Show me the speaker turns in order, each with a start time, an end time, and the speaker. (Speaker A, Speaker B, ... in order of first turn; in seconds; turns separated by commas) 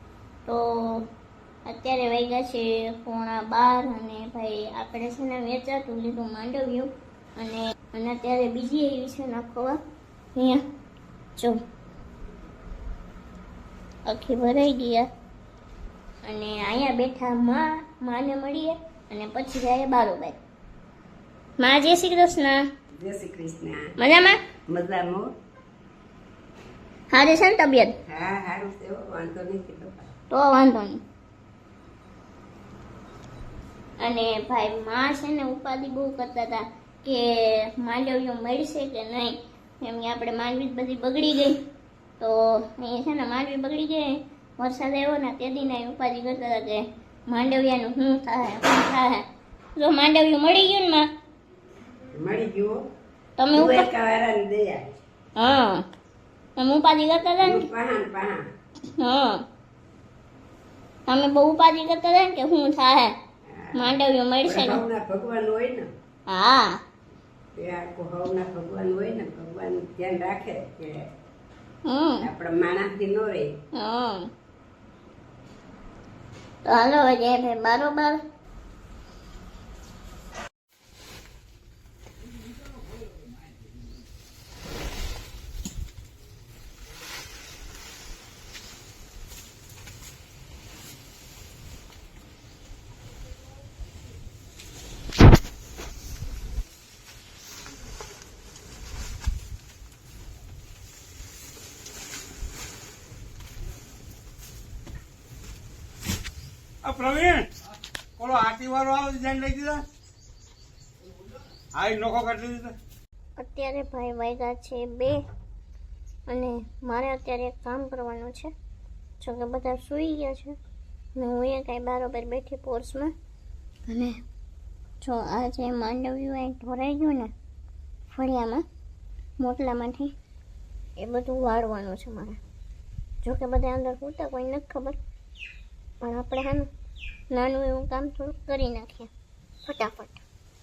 Speaker A: 0.5-1.1, Speaker A: 1.7-9.8, Speaker A: 10.3-10.6, Speaker A: 11.4-11.6, Speaker A: 14.1-15.1, Speaker A: 16.2-20.4, Speaker A: 21.6-22.7, Speaker B: 22.9-23.8, Speaker A: 24.0-24.4, Speaker B: 24.7-25.3, Speaker A: 27.1-27.9, Speaker B: 28.1-30.1, Speaker A: 30.3-31.0, Speaker A: 34.0-41.6, Speaker A: 42.2-49.2, Speaker A: 49.8-51.1, Speaker B: 52.1-52.8, Speaker A: 53.4-53.9, Speaker B: 53.5-54.8, Speaker A: 55.4-55.9, Speaker A: 56.6-57.7, Speaker B: 57.4-58.4, Speaker A: 59.0-59.4, Speaker A: 61.1-63.1, Speaker B: 63.5-65.9, Speaker A: 63.7-64.8, Speaker A: 66.3-66.8, Speaker B: 67.5-71.1, Speaker A: 71.8-72.3, Speaker B: 72.2-73.5, Speaker A: 73.7-74.3, Speaker A: 76.6-78.2, Speaker C: 106.8-107.5, Speaker C: 108.2-109.8, Speaker C: 111.7-112.8, Speaker A: 113.4-115.2, Speaker A: 116.3-118.5, Speaker A: 119.2-120.5, Speaker A: 121.2-123.1, Speaker A: 123.9-124.2, Speaker A: 125.0-127.3, Speaker A: 128.1-128.7, Speaker A: 129.4-130.1, Speaker A: 131.0-132.4, Speaker A: 133.2-135.0, Speaker A: 136.0-136.7, Speaker A: 137.3-139.1, Speaker A: 139.7-140.2